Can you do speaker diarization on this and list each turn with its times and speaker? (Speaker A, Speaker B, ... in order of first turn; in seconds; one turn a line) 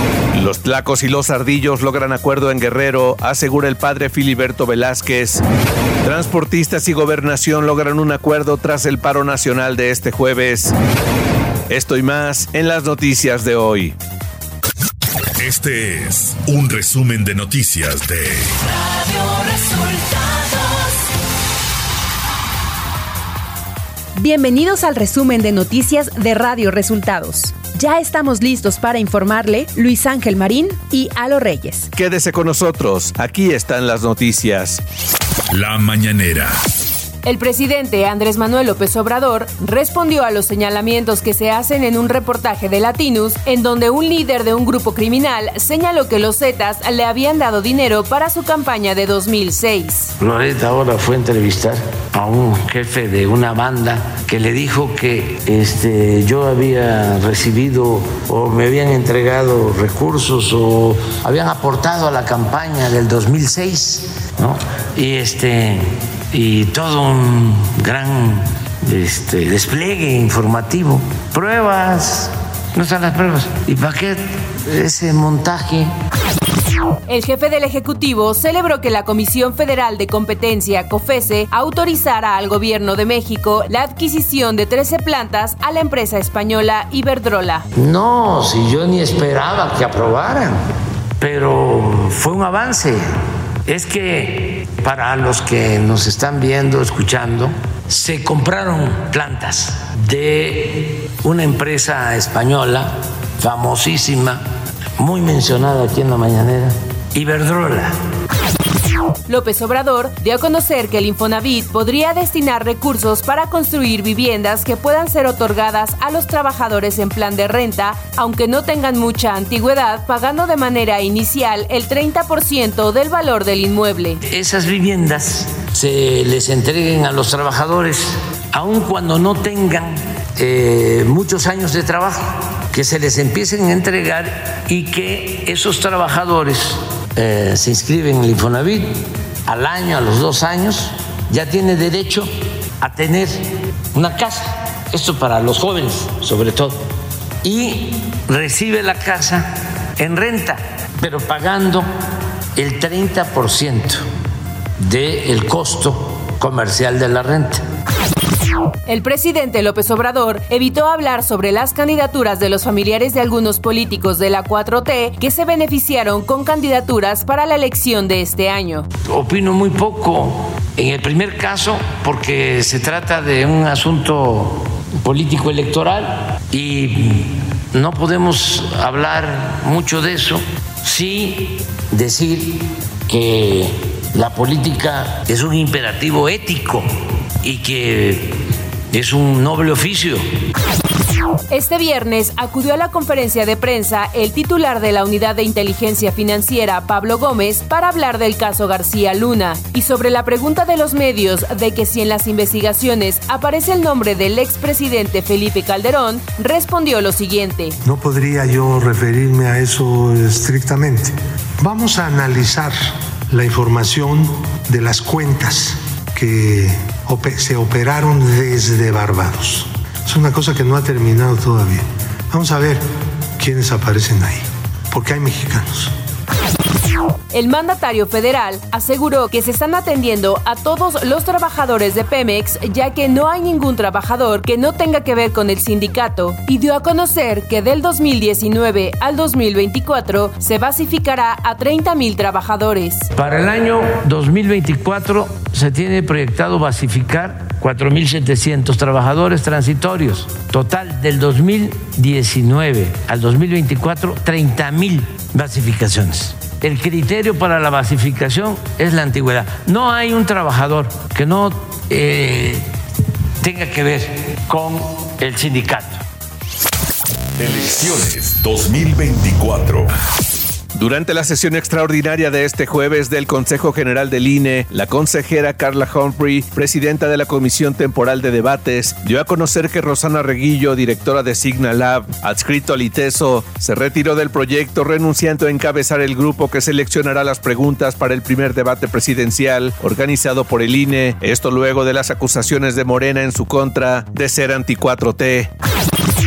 Speaker A: 0.3-5.4
Speaker A: 6.0-10.7
Speaker A: 11.7-13.9
Speaker B: 15.4-18.4
Speaker C: 24.1-31.9
Speaker A: 31.9-34.8
Speaker B: 35.5-36.5
Speaker C: 37.2-50.1
Speaker D: 50.2-75.9
Speaker C: 77.1-87.7
Speaker D: 87.8-90.6
Speaker D: 91.2-93.0
Speaker D: 93.7-104.4
Speaker D: 105.0-107.9
Speaker C: 109.3-124.2
Speaker D: 124.3-138.9
Speaker D: 139.5-142.3
Speaker D: 142.8-143.4
Speaker D: 143.9-146.8
Speaker D: 147.4-151.9
Speaker D: 152.6-154.0
Speaker D: 154.8-157.6
Speaker C: 158.8-168.9
Speaker D: 169.1-186.8
Speaker D: 187.4-188.4
Speaker D: 188.9-190.2
Speaker C: 191.5-207.8
Speaker E: 207.8-212.8
Speaker E: 213.3-222.8
Speaker E: 223.4-225.9
Speaker C: 227.3-243.1
Speaker D: 243.2-262.6
Speaker D: 263.4-266.0
Speaker B: 267.4-269.9
Speaker A: 270.7-295.5